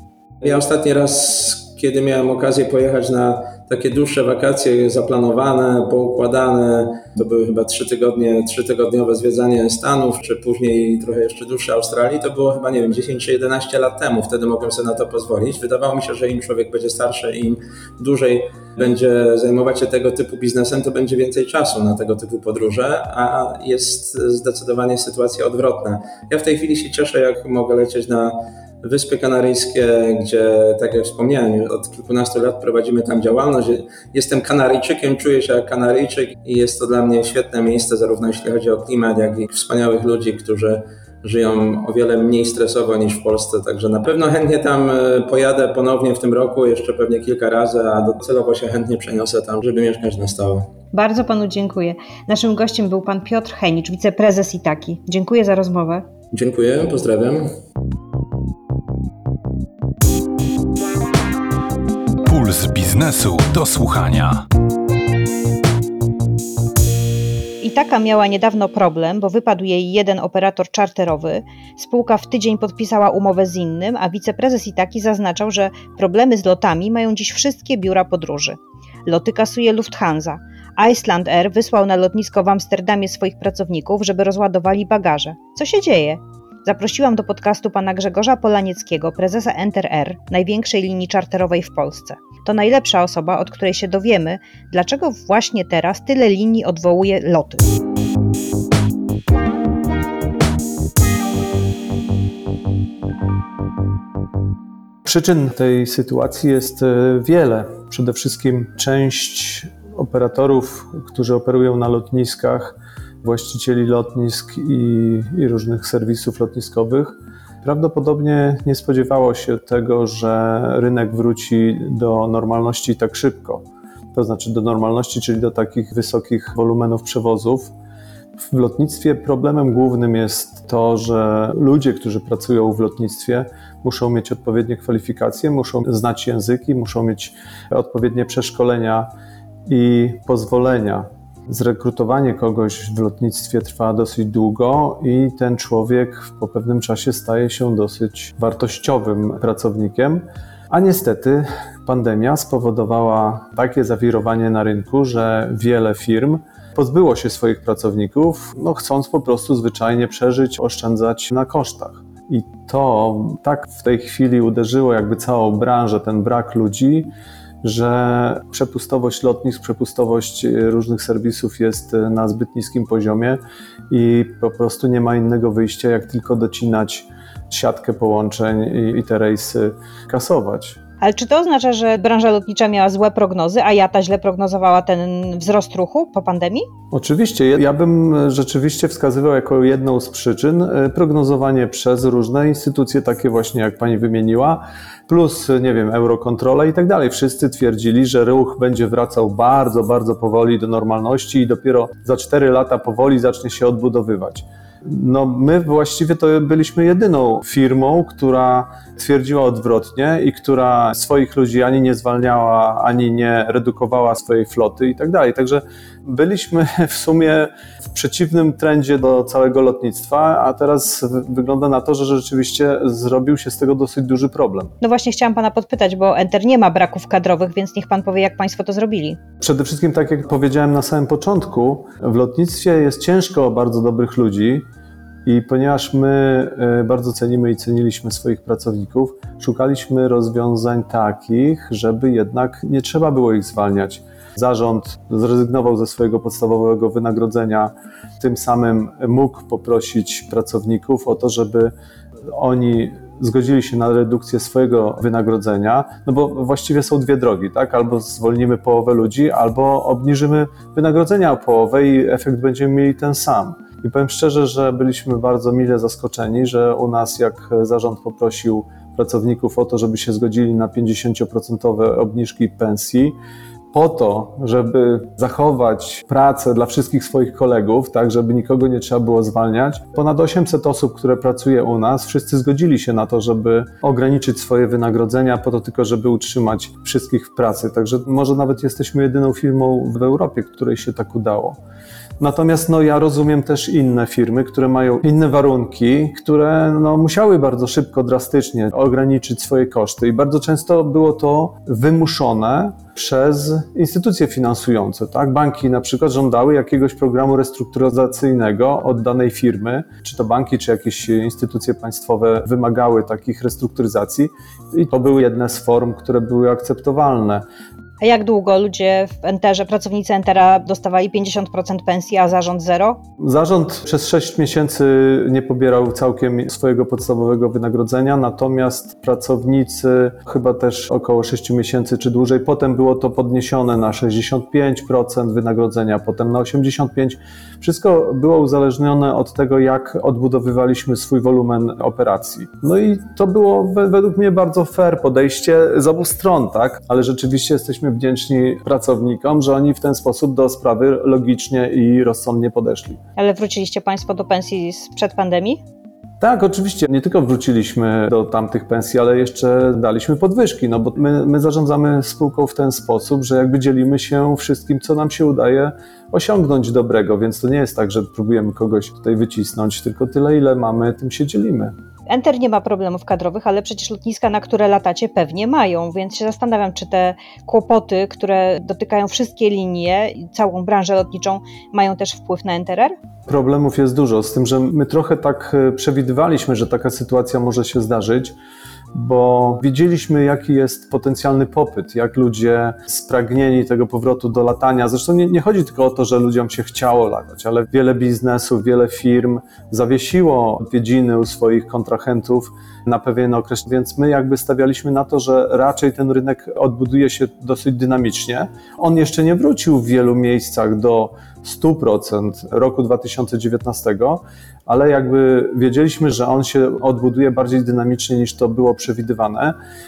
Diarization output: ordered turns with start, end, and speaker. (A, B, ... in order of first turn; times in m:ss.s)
0:00.4-0:50.7 A
0:50.9-0:56.1 B
0:56.3-0:57.5 A
1:02.2-1:04.4 C
1:07.6-1:37.7 B
1:45.0-2:07.7 D
2:08.5-2:19.1 D
2:19.6-2:47.1 D
2:47.6-3:00.8 D
3:01.0-3:06.7 B
3:06.9-3:44.7 D
3:44.8-3:49.2 B
3:49.4-3:54.7 D
3:55.2-4:11.7 D
4:12.3-4:33.2 D
4:33.7-4:51.6 D
4:52.2-5:17.4 D
5:18.0-5:23.0 B
5:23.2-5:53.0 D
5:53.2-5:55.6 B
5:56.2-6:11.7 D
6:12.1-6:23.0 B
6:23.3-6:28.3 D
6:28.9-6:59.6 D